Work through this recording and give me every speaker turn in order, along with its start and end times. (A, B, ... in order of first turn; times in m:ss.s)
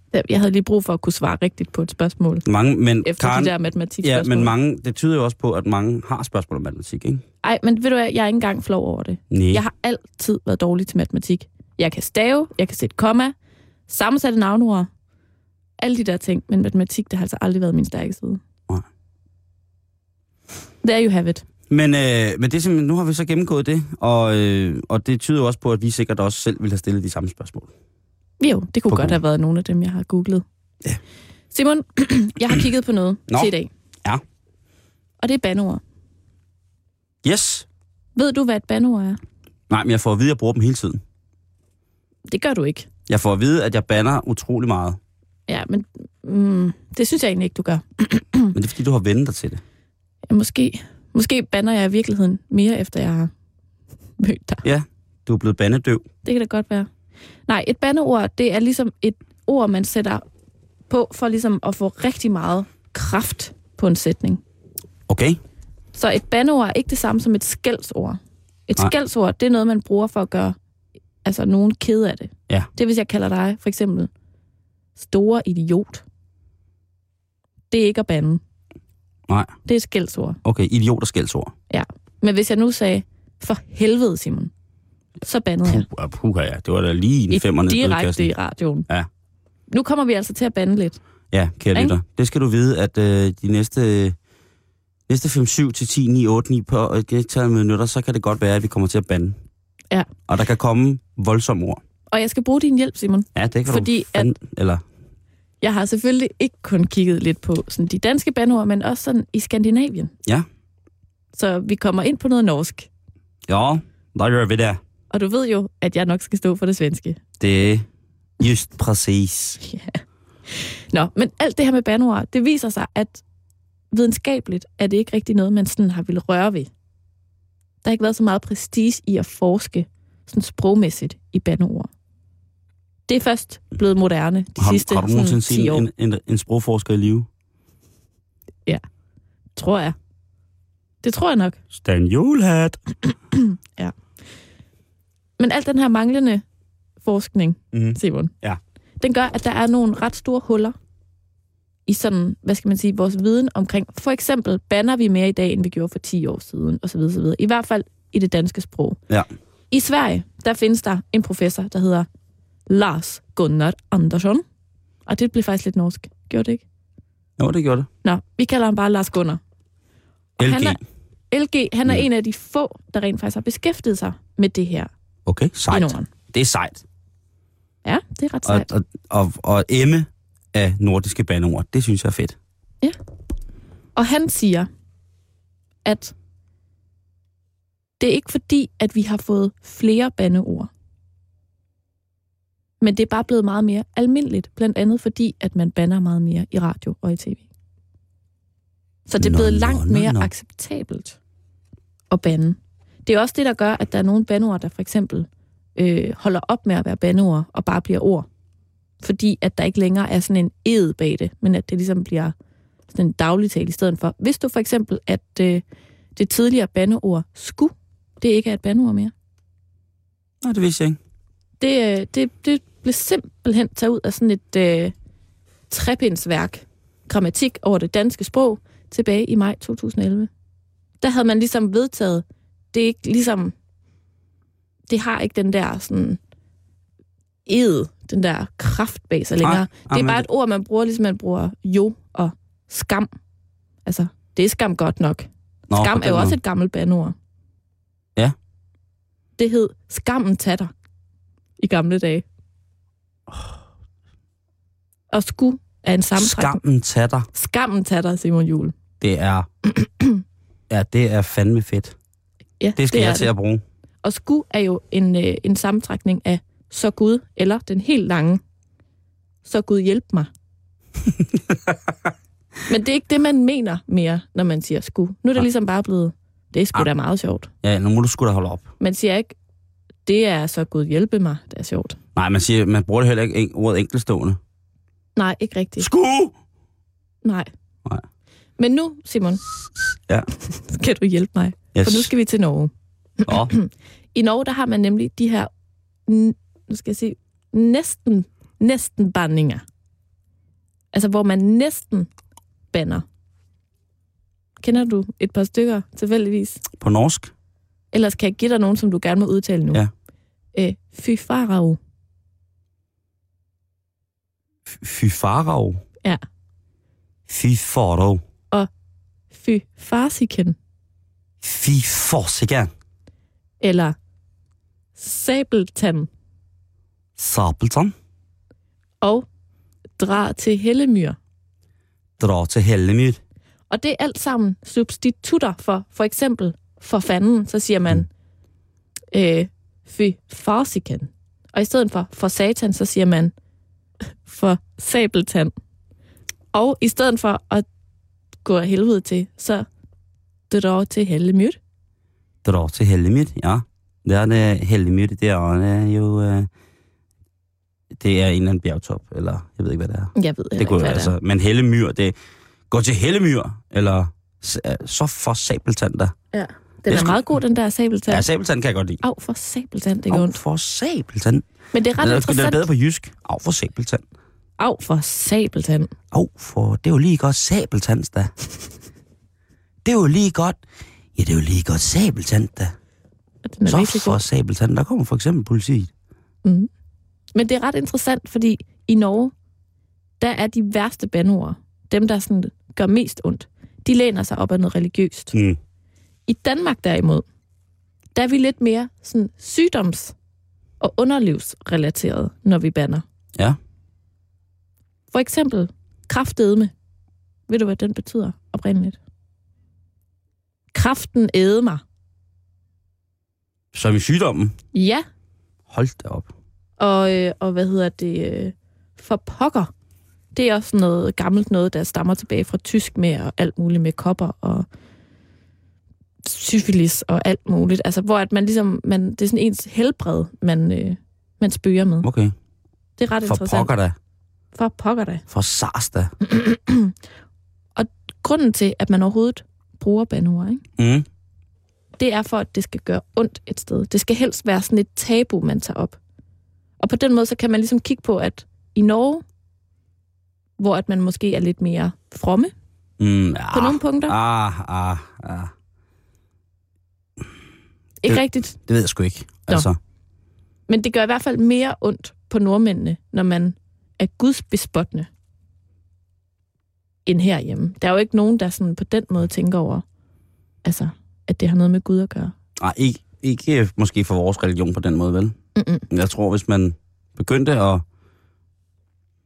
0:00.1-0:02.4 A
0:02.4-0:07.2 B
0:03.0-0:04.5 A
0:07.4-0:13.3 A
0:09.3-0:09.6 B
0:13.9-0:14.9 A
0:15.8-0:18.4 A
0:20.8-0:21.4 A
0:21.7-0:27.7 B
0:28.4-0:30.4 A
0:28.9-0:29.2 B
0:31.5-0:33.7 A
0:35.2-0:35.8 A
0:37.2-0:37.6 B
0:38.2-0:39.2 A
0:39.7-0:41.0 B
0:42.3-0:42.9 A
0:43.1-0:45.0 B
0:45.5-0:48.5 A
0:48.5-0:49.6 B
0:50.3-0:53.3 A
0:54.2-0:54.6 A
0:54.6-0:56.0 B
0:56.2-0:56.9 A
0:57.5-1:00.2 A
1:00.9-1:04.4 A
1:05.1-1:05.4 B
1:05.9-1:10.6 A
1:11.2-1:14.1 A
1:15.0-1:16.0 A
1:17.7-1:18.4 A
1:19.3-1:19.5 B
1:19.6-1:20.4 A
1:20.4-1:21.5 B
1:21.7-1:24.5 A
1:25.2-1:25.9 A
1:25.6-1:28.3 B
1:27.3-1:28.9 A
1:29.7-1:31.0 A
1:31.3-1:34.2 B
1:35.1-1:39.4 B
1:40.3-1:41.8 B
1:42.1-1:44.3 A
1:43.3-1:44.8 B
1:45.6-1:50.1 A
1:51.3-1:52.9 A
1:53.5-1:54.8 B
1:55.1-1:57.2 A
1:57.4-1:57.9 B
1:58.4-1:59.6 B
1:59.6-2:03.2 A
2:03.9-2:06.7 A
2:07.8-2:11.9 A
2:13.1-2:15.8 A
2:14.6-2:17.3 B
2:19.6-2:20.0 A
2:21.0-2:21.6 A
2:21.7-2:22.8 B
2:23.3-2:23.9 A
2:25.4-2:26.4 A
2:27.0-2:28.3 A
2:27.7-2:28.6 B
2:29.0-2:30.7 A
2:31.8-2:39.0 A
2:39.7-2:42.1 A
2:42.7-2:44.4 A
2:45.0-2:46.6 A
2:47.4-2:47.9 B
2:48.0-2:49.4 A
2:50.4-2:50.8 A
2:50.4-2:50.8 B
2:51.3-2:54.9 A
2:55.2-2:56.8 B
2:55.7-2:56.1 A
2:57.8-2:58.7 A
2:58.4-3:02.4 B
3:04.0-3:04.7 A
3:05.8-3:06.1 A
3:08.0-3:10.7 A
3:12.8-3:17.4 A
3:19.1-3:21.2 A
3:19.2-3:20.3 B
3:22.1-3:28.2 A
3:29.0-3:32.3 A
3:32.9-3:35.6 A
3:36.2-3:39.1 A
3:40.4-3:41.0 B
3:41.6-3:44.9 A
3:45.7-3:50.3 A
3:51.0-3:53.5 A
3:54.9-3:56.2 A
3:57.4-4:03.1 A
3:59.4-4:00.2 B
4:03.8-4:07.1 A
4:05.7-4:06.4 B
4:09.4-4:10.7 A
4:11.6-4:12.2 A
4:15.1-4:16.6 A
4:16.2-4:17.3 B
4:17.3-4:18.7 A
4:19.0-4:19.5 B
4:19.7-4:20.2 A
4:20.7-4:21.9 B
4:22.6-4:23.3 A
4:22.8-4:23.6 B
4:24.0-4:28.4 A
4:29.4-4:30.3 A
4:32.7-4:37.5 A
4:37.6-4:38.7 B
4:38.8-4:39.3 A
4:40.0-4:42.0 A
4:42.2-4:44.4 B
4:45.2-4:45.9 A
4:45.8-4:46.3 B
4:48.6-4:49.4 A
4:50.5-4:55.5 A
4:51.7-4:52.1 B
4:53.2-4:53.5 B
4:56.1-4:59.6 A
5:00.9-5:02.1 A
5:02.7-5:03.0 A
5:04.6-5:06.6 A
5:06.8-5:07.3 B
5:07.9-5:09.8 A
5:10.5-5:11.8 A
5:14.7-5:15.8 B
5:17.3-5:18.2 B
5:19.3-5:20.6 A
5:21.4-5:22.7 B
5:23.6-5:23.9 A
5:25.0-5:26.1 A
5:27.2-5:27.9 B
5:30.0-5:31.2 A
5:32.2-5:33.2 B
5:33.7-5:38.1 A
5:39.1-5:43.3 A
5:44.2-5:45.5 A
5:46.5-5:47.6 A
5:48.4-5:49.7 A
5:50.5-5:51.6 A
5:52.4-5:56.5 B
5:57.9-6:02.1 B
6:00.1-6:01.1 A
6:02.7-6:06.1 B
6:06.3-6:08.2 A
6:06.9-6:07.2 B
6:08.1-6:09.0 B
6:09.0-6:10.4 A
6:10.1-6:11.4 B
6:11.7-6:12.6 A
6:12.0-6:14.0 B
6:14.6-6:15.9 A
6:16.1-6:18.3 B
6:19.8-6:20.6 B
6:21.2-6:22.7 B
6:23.4-6:24.2 A
6:23.6-6:25.9 B
6:26.4-6:26.7 A
6:27.3-6:29.3 A
6:30.2-6:35.3 A
6:35.3-6:35.6 B
6:36.3-6:37.2 A
6:38.1-6:40.1 A
6:40.8-6:43.0 A
6:45.1-6:46.7 A
6:47.5-6:49.0 A
6:50.7-6:51.8 A
6:53.7-6:54.5 B
6:54.7-6:55.0 A
6:55.7-6:56.3 B
6:56.8-6:59.7 A
7:00.3-7:04.6 A
7:06.2-7:12.1 A
7:12.0-7:12.3 B
7:13.0-7:13.7 A
7:13.2-7:14.0 B
7:14.5-7:15.2 A
7:15.3-7:16.1 B
7:16.2-7:16.9 A
7:17.8-7:20.6 A
7:20.8-7:21.0 B
7:22.0-7:26.0 A
7:26.8-7:29.2 A
7:30.6-7:32.5 A
7:33.0-7:35.5 B
7:33.5-7:34.1 A
7:38.0-7:38.6 A
7:38.1-7:39.8 B
7:40.7-7:45.1 A
7:47.0-7:49.8 A
7:50.6-7:52.3 A
7:52.6-7:55.4 B
7:55.6-7:55.8 A
7:55.9-7:57.8 B